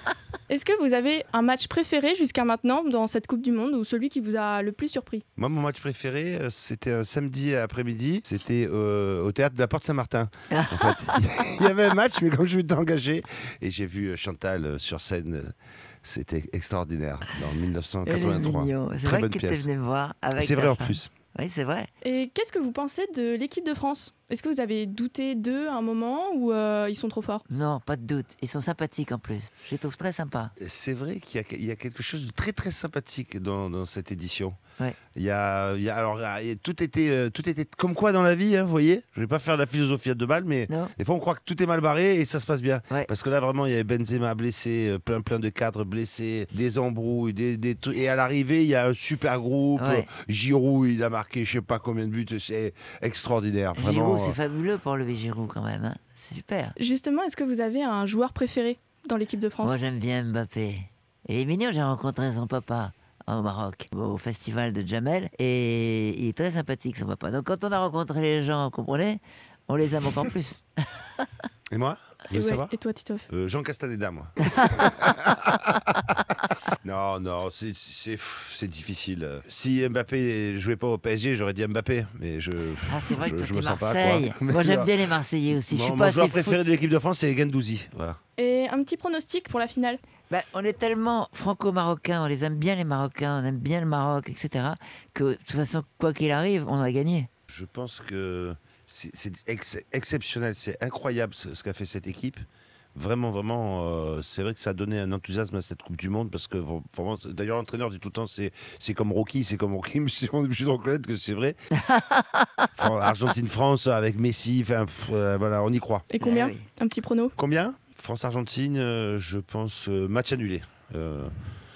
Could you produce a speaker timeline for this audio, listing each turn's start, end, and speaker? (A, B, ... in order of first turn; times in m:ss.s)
0:00.5-0:05.2 A
0:05.4-0:19.7 B
0:10.5-0:11.2 C
0:18.0-0:21.9 C
0:20.4-0:21.1 B
0:22.0-0:27.4 A
0:27.5-0:30.5 C
0:30.6-0:34.6 B
0:35.2-0:54.4 B
0:40.7-0:40.9 C
0:49.8-0:50.1 C
0:53.8-0:56.8 C
0:56.8-0:59.8 A
0:59.6-1:11.2 C
1:11.7-1:12.7 B
1:12.3-1:13.3 A
1:13.3-1:16.0 B
1:16.8-1:25.0 B
1:22.9-1:26.6 C
1:25.7-1:28.2 B
1:28.4-1:30.0 A
1:30.3-1:37.3 C
1:37.5-1:42.4 B
1:43.0-1:51.6 B
1:51.9-1:52.7 C
1:52.8-1:56.1 B
1:56.1-1:57.3 A
1:56.2-1:56.6 C
1:57.4-2:01.3 B